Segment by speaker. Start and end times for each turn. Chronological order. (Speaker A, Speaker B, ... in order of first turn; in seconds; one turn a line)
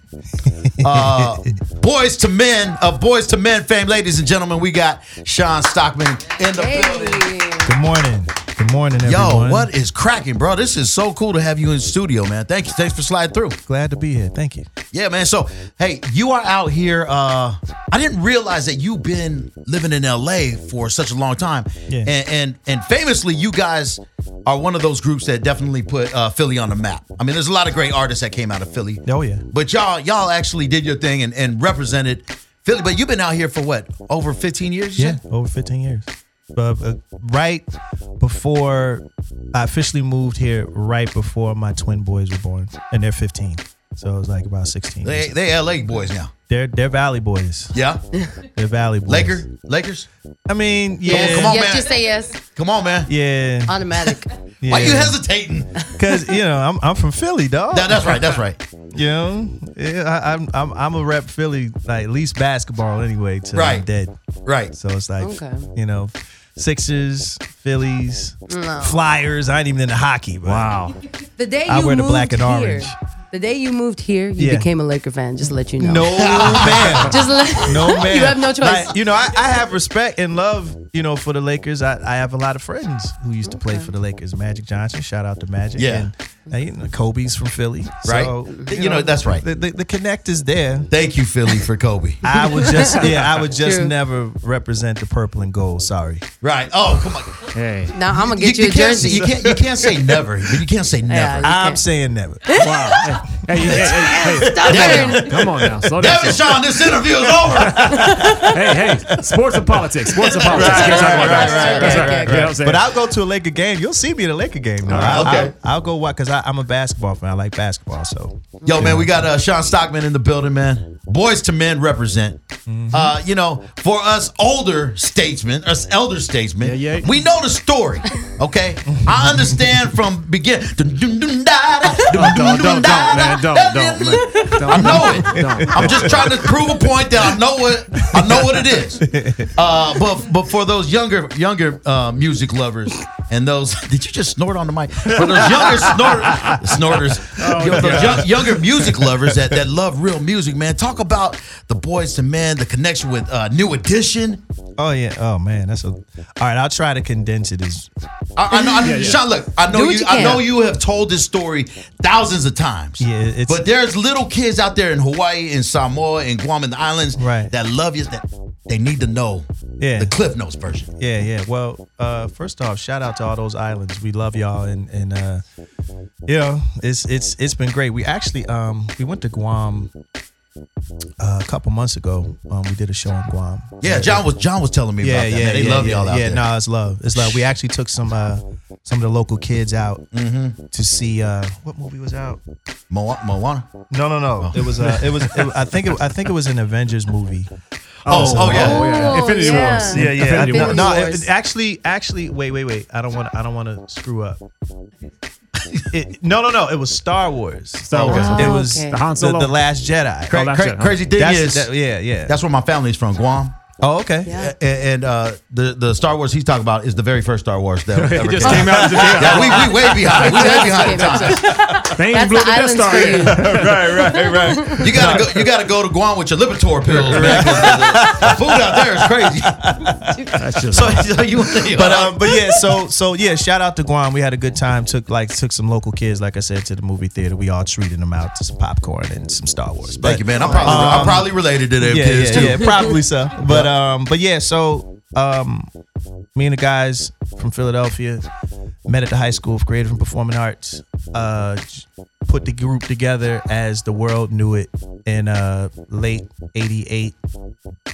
Speaker A: 0.4-1.5
Speaker B: 0.8-7.3
Speaker C: 6.4-7.7
Speaker A: 7.6-9.7
Speaker B: 9.0-13.6
Speaker A: 13.7-14.7
Speaker B: 14.9-35.2
Speaker A: 21.9-22.1
Speaker A: 29.0-29.5
Speaker A: 35.0-45.3
Speaker B: 45.0-46.3
Speaker A: 46.5-47.7
Speaker B: 47.7-48.0
Speaker A: 48.5-49.5
Speaker B: 49.0-50.1
Speaker A: 50.5-51.7
Speaker C: 51.0-52.4
Speaker B: 51.1-53.1
Speaker A: 53.0-55.2
Speaker C: 53.7-54.3
Speaker B: 54.7-55.8
Speaker A: 55.9-58.4
Speaker B: 57.7-58.6
Speaker A: 58.9-64.1
Speaker B: 63.5-63.8
Speaker B: 64.5-64.7
Speaker A: 64.7-70.7
Speaker C: 65.2-65.7
Speaker C: 68.5-69.0
Speaker D: 70.4-71.0
Speaker C: 71.4-78.9
Speaker A: 71.7-73.0
Speaker A: 74.4-74.7
Speaker A: 75.8-90.9
Speaker B: 76.2-77.1
Speaker C: 83.5-83.9
Speaker B: 85.8-86.1
Speaker B: 88.0-89.4
Speaker B: 90.9-92.2
Speaker A: 92.2-96.2
Speaker C: 92.3-93.0
Speaker C: 93.6-93.9
Speaker B: 96.4-97.4
Speaker D: 97.5-97.9
Speaker C: 97.9-99.3
Speaker B: 98.1-101.5
Speaker A: 99.3-100.2
Speaker C: 101.1-101.8
Speaker A: 101.4-102.5
Speaker C: 102.5-103.2
Speaker D: 102.6-106.6
Speaker A: 103.6-103.9
Speaker C: 103.8-105.4
Speaker B: 104.4-105.3
Speaker A: 104.9-105.1
Speaker B: 105.9-108.0
Speaker A: 107.3-108.5
Speaker C: 107.8-108.6
Speaker D: 108.4-112.9
Speaker A: 109.1-109.8
Speaker B: 110.2-111.8
Speaker A: 110.3-119.1
Speaker C: 110.5-112.5
Speaker D: 114.8-115.4
Speaker B: 114.9-115.5
Speaker B: 118.7-122.4
Speaker A: 122.7-123.2
Speaker B: 122.9-154.4
Speaker D: 126.6-127.1
Speaker A: 128.9-129.8
Speaker D: 132.1-136.5
Speaker C: 134.2-135.3
Speaker A: 135.4-136.3
Speaker A: 138.1-139.6
Speaker A: 146.1-146.5
Speaker D: 147.3-148.4
Speaker A: 147.6-149.6
Speaker A: 154.8-157.9
Speaker B: 158.3-169.4
Speaker C: 158.5-159.2
Speaker D: 158.8-159.2
Speaker C: 159.7-160.4
Speaker A: 163.0-163.6
Speaker A: 167.2-167.5
Speaker A: 169.8-170.1
Speaker B: 170.0-170.9
Speaker A: 171.0-175.4
Speaker A: 176.2-179.9
Speaker A: 181.2-184.3
Speaker B: 183.8-186.4
Speaker A: 185.0-190.0
Speaker B: 187.1-187.4
Speaker B: 190.1-190.6
Speaker A: 190.7-192.4
Speaker B: 192.9-193.7
Speaker A: 193.9-197.5
Speaker B: 194.4-195.0
Speaker D: 198.0-200.9
Speaker B: 198.1-199.1
Speaker A: 198.1-199.0
Speaker C: 198.5-201.3
Speaker A: 199.7-204.4
Speaker A: 205.9-210.5
Speaker D: 207.8-209.6
Speaker B: 208.0-208.4
Speaker C: 208.1-209.0
Speaker D: 210.3-211.1
Speaker B: 210.3-211.7
Speaker A: 211.1-212.4
Speaker B: 212.2-213.6
Speaker A: 213.8-214.4
Speaker C: 214.2-214.5
Speaker B: 214.3-221.4
Speaker D: 217.9-220.8
Speaker C: 218.4-225.0
Speaker A: 218.7-219.5
Speaker A: 221.3-221.9
Speaker D: 221.7-224.4
Speaker A: 223.0-225.5
Speaker B: 224.8-229.6
Speaker D: 226.9-227.8
Speaker A: 226.9-245.7
Speaker D: 230.4-231.1
Speaker B: 230.7-232.2
Speaker B: 239.9-243.7
Speaker C: 240.3-241.2
Speaker A: 246.3-248.2
Speaker A: 248.8-257.1